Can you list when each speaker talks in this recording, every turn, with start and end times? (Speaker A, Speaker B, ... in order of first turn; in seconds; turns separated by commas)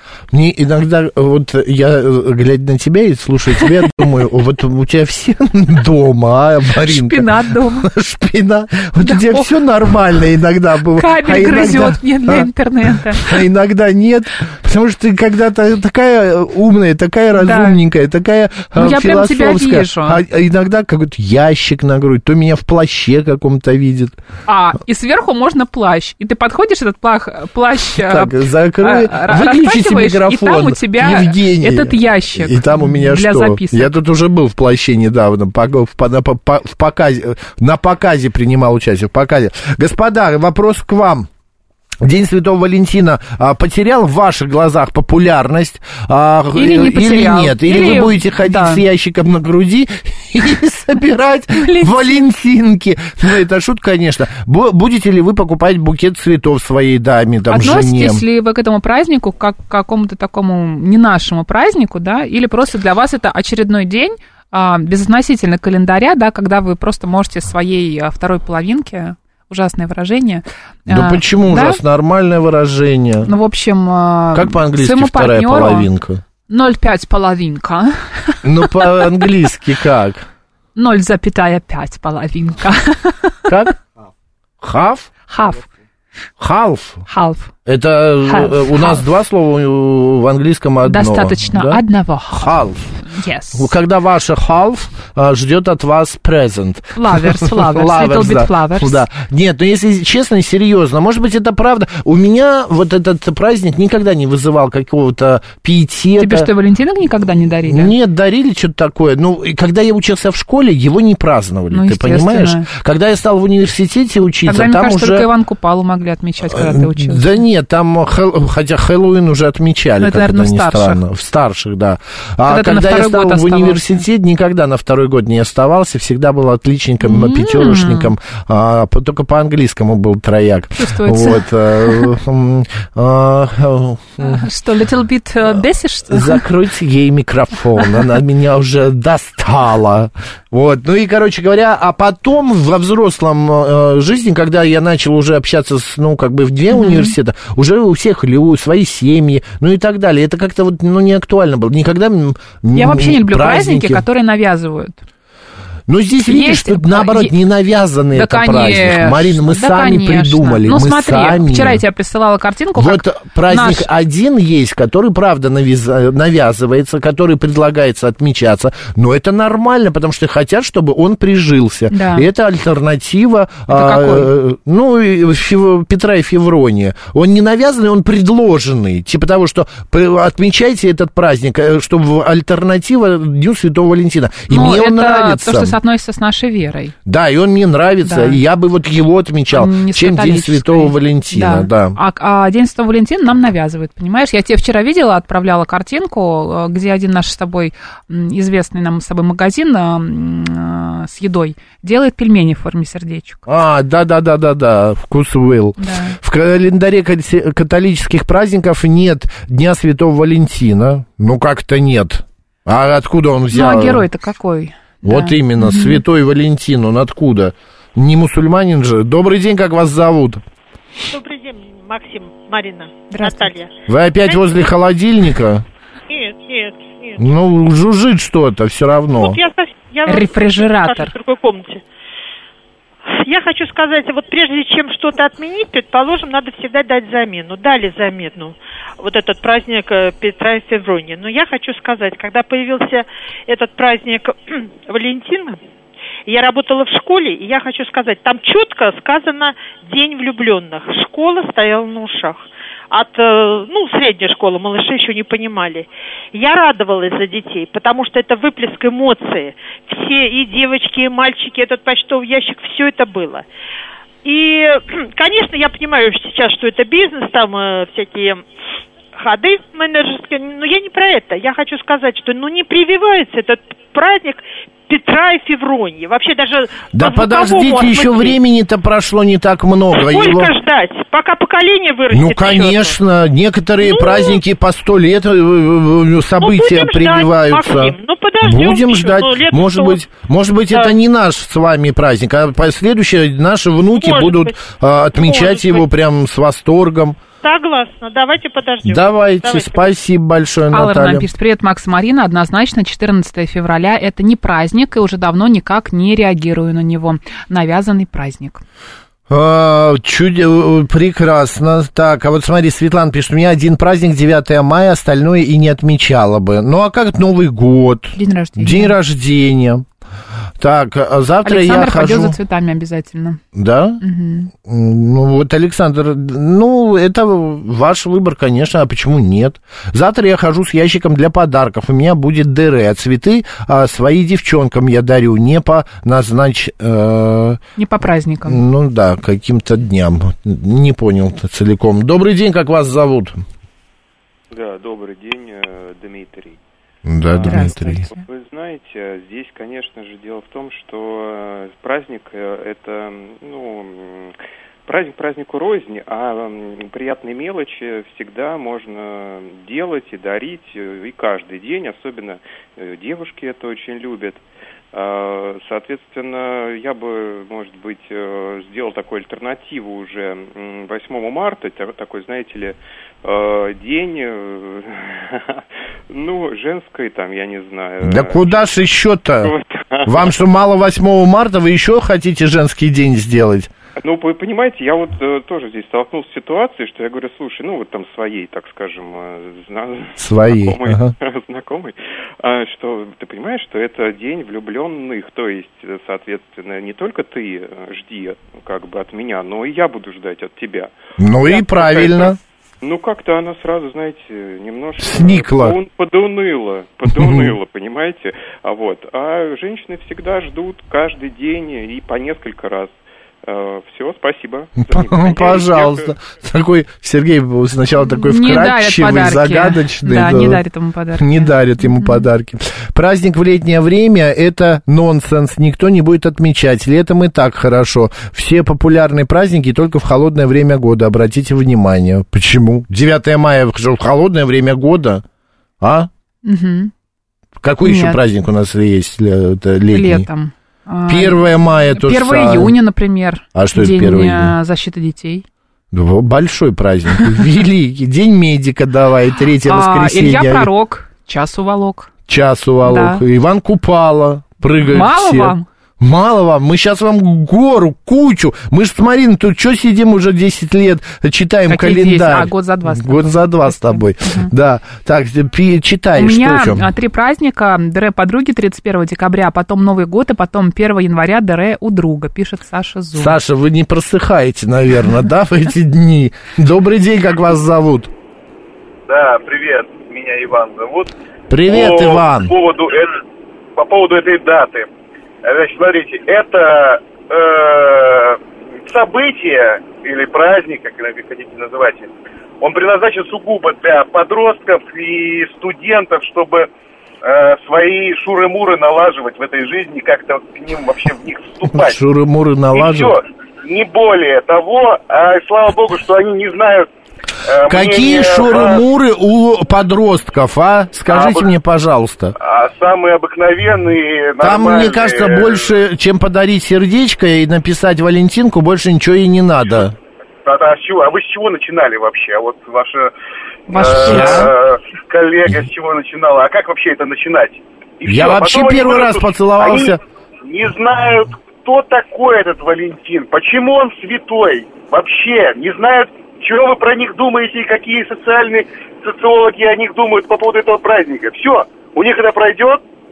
Speaker A: 0.3-24.2, Speaker B: 6.8-7.9, Speaker B: 9.0-9.5, Speaker B: 10.9-13.4, Speaker B: 17.4-17.8, Speaker B: 18.8-20.2, Speaker B: 24.5-33.9, Speaker A: 27.9-41.3, Speaker A: 42.0-58.2, Speaker B: 46.5-48.8, Speaker B: 51.5-52.2, Speaker B: 57.5-71.8, Speaker A: 70.9-73.3, Speaker B: 73.2-75.9, Speaker A: 74.3-76.2, Speaker B: 76.5-79.1, Speaker A: 78.4-80.3, Speaker B: 80.8-83.5, Speaker A: 83.5-83.8, Speaker A: 84.6-85.1, Speaker B: 85.3-85.7, Speaker A: 86.4-87.0, Speaker B: 87.1-87.5, Speaker A: 87.7-91.8, Speaker B: 88.2-89.0, Speaker B: 90.8-93.7, Speaker A: 92.3-92.9, Speaker A: 93.5-106.5, Speaker B: 97.0-99.0, Speaker B: 106.2-107.9, Speaker A: 107.7-115.3, Speaker B: 111.7-112.7, Speaker B: 114.4-117.4, Speaker A: 116.4-134.4, Speaker B: 120.0-121.0, Speaker B: 122.5-124.0, Speaker B: 127.0-128.1, Speaker B: 130.8-132.1, Speaker B: 134.2-136.4, Speaker A: 136.1-154.0, Speaker B: 146.7-147.1, Speaker B: 152.7-155.0, Speaker A: 155.9-161.8, Speaker B: 156.3-157.3, Speaker B: 158.1-163.9, Speaker A: 162.8-185.8, Speaker B: 171.9-172.3, Speaker B: 173.7-174.3, Speaker B: 184.5-186.9, Speaker A: 187.1-192.0, Speaker B: 188.0-188.4, Speaker B: 189.5-203.4, Speaker A: 203.5-214.1, Speaker B: 205.8-206.2, Speaker B: 213.5-216.0, Speaker A: 215.0-220.4, Speaker C: 221.1-223.7, Speaker B: 223.1-223.5, Speaker A: 223.9-225.6, Speaker C: 224.2-224.5, Speaker C: 226.1-227.2, Speaker A: 227.2-229.4, Speaker C: 229.2-231.8, Speaker B: 230.1-231.1, Speaker C: 233.1-245.6, Speaker C: 246.2-263.4, Speaker C: 264.2-268.4, Speaker C: 269.1-278.4, Speaker A: 276.9-280.5, Speaker C: 279.9-282.9, Speaker A: 282.1-297.2, Speaker C: 283.8-284.4, Speaker C: 286.4-290.0, Speaker C: 293.9-294.6, Speaker C: 295.1-295.9, Speaker C: 297.4-299.9, Speaker A: 298.8-301.3, Speaker B: 300.7-308.6, Speaker A: 309.3-319.8, Speaker B: 318.1-318.9, Speaker A: 320.6-322.4, Speaker B: 321.4-323.4, Speaker A: 323.5-324.0, Speaker B: 324.0-324.5, Speaker A: 324.5-337.6, Speaker B: 337.8-338.6, Speaker A: 338.4-343.4, Speaker D: 344.5-346.6, Speaker A: 347.0-348.0, Speaker D: 347.3-354.3, Speaker B: 347.4-348.2, Speaker D: 354.9-378.6, Speaker A: 378.0-379.5, Speaker D: 379.4-380.3, Speaker A: 380.1-383.7, Speaker D: 384.0-400.9, Speaker A: 390.2-391.1, Speaker A: 401.2-402.4, Speaker D: 401.4-416.1, Speaker A: 405.0-405.8, Speaker A: 407.1-407.5, Speaker A: 414.9-420.6, Speaker B: 418.0-422.3, Speaker A: 421.1-435.2, Speaker A: 435.8-436.1, Speaker B: 436.4-436.9, Speaker A: 437.6-440.3, Speaker B: 437.8-438.2, Speaker B: 439.9-445.4, Speaker A: 441.1-442.7, Speaker A: 443.5-444.6, Speaker A: 445.9-450.7, Speaker B: 449.6-452.1, Speaker A: 452.3-466.9, Speaker B: 452.8-453.2, Speaker B: 454.8-455.6, Speaker B: 461.7-464.5, Speaker B: 466.2-473.4, Speaker A: 473.1-478.1, Speaker E: 479.1-481.1, Speaker A: 481.5-482.5, Speaker E: 481.7-483.2, Speaker E: 483.8-484.9, Speaker E: 485.4-496.7, Speaker E: 497.2-502.0, Speaker A: 501.7-503.1, Speaker E: 502.7-506.9, Speaker E: 507.4-508.8, Speaker A: 507.7-512.3, Speaker E: 511.1-511.4, Speaker E: 512.4-515.7, Speaker A: 514.4-520.0, Speaker E: 520.4-523.1, Speaker B: 523.7-524.5, Speaker E: 523.7-542.8, Speaker A: 523.8-524.5, Speaker A: 528.0-530.0